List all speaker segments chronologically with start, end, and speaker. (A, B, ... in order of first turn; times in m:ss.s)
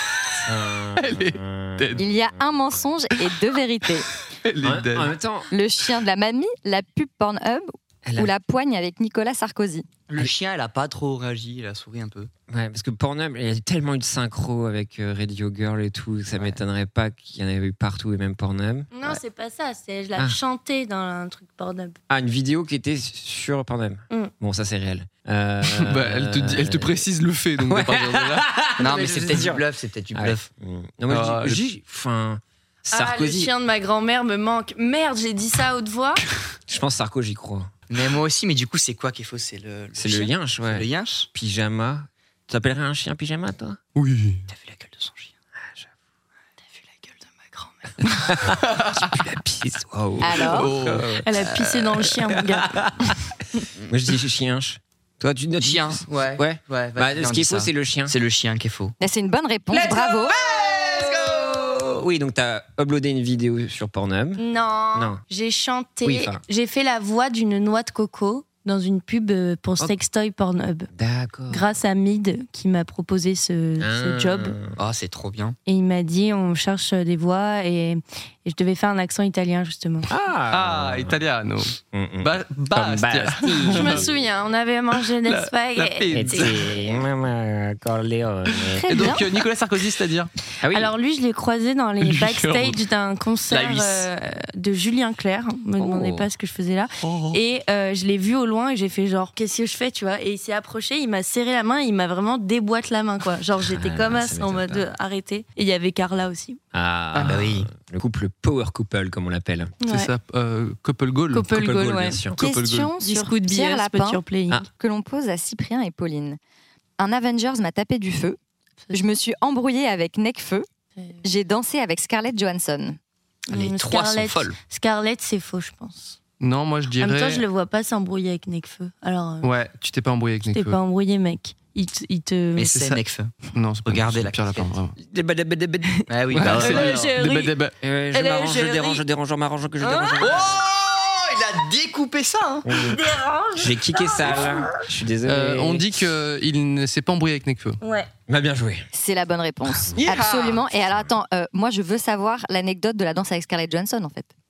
0:00.4-0:02.5 A
0:01.0-0:02.0 B
0:02.0-0:04.1 C
0:04.2-0:05.2 B
0:04.6-0:05.5 A
0:05.5-0:09.9 C
0:08.0-0:08.3 A
0:10.1-0:12.3 D
0:12.5-0:19.2 A
0:18.9-0:22.0 E
0:22.1-0:27.0 A
0:25.6-0:28.5 B
0:27.6-0:29.6 A
0:28.8-0:30.5 D
0:30.1-0:33.5 A
0:31.1-0:31.6 B
0:32.9-0:36.2 E
0:36.7-0:37.7 A
0:37.9-0:41.3 D
0:40.0-0:43.8 A
0:44.0-0:44.4 B
0:44.5-0:45.3 D
0:47.0-0:47.7 D
0:48.3-0:51.1 A
0:48.6-0:49.1 B
0:50.2-0:50.7 C
0:50.5-0:51.2 B
0:51.2-0:52.8 E
0:51.4-0:52.0 D
0:52.3-0:53.2 A
0:53.9-0:58.2 A
0:55.6-0:59.0 D
0:59.0-1:00.3 C
0:59.7-1:04.4 A
0:59.8-1:01.9 D
1:04.4-1:10.9 E
1:04.9-1:05.2 A
1:06.0-1:06.4 A
1:10.9-1:11.7 A
1:11.5-1:14.6 E
1:13.8-1:14.8 A
1:14.8-1:15.6 D
1:15.7-1:20.1 E
1:20.1-1:21.2 A
1:20.5-1:24.1 B
1:21.9-1:24.2 A
1:23.7-1:26.9 E
1:25.2-1:26.8 B
1:26.1-1:29.2 A
1:28.8-1:29.3 C
1:28.9-1:30.3 B
1:30.6-1:30.9 A
1:30.7-1:46.6 E
1:32.0-1:32.8 B
1:33.5-1:34.1 D
1:35.8-1:36.3 A
1:37.0-1:37.4 B
1:43.7-1:44.9 A
1:46.7-1:49.8 A
1:47.1-1:47.5 B
1:47.2-1:47.7 D
1:49.8-1:50.1 E
1:49.9-1:51.5 B
1:51.3-1:52.2 E
1:51.5-1:52.4 A
1:52.4-1:56.4 C
1:52.5-1:52.9 B
1:53.0-1:54.7 E
1:57.0-1:58.4 C
1:58.9-2:00.7 C
2:01.2-2:03.0 C
2:03.5-2:06.2 E
2:03.5-2:04.6 D
2:06.4-2:07.4 B
2:07.0-2:09.5 E
2:09.4-2:10.8 B
2:10.5-2:12.8 E
2:12.6-2:14.7 D
2:13.5-2:15.0 B
2:15.0-2:16.5 A
2:16.1-2:17.1 D
2:16.3-2:17.8 B
2:16.4-2:17.6 E
2:17.8-2:20.6 A
2:18.1-2:19.0 E
2:19.8-2:20.4 E
2:20.2-2:22.7 D
2:22.6-2:26.0 A
2:22.9-2:24.7 E
2:25.2-2:27.8 B
2:27.8-2:28.1 E
2:28.3-2:28.9 A
2:28.9-2:34.3 C
2:30.0-2:30.6 D
2:30.8-2:31.1 A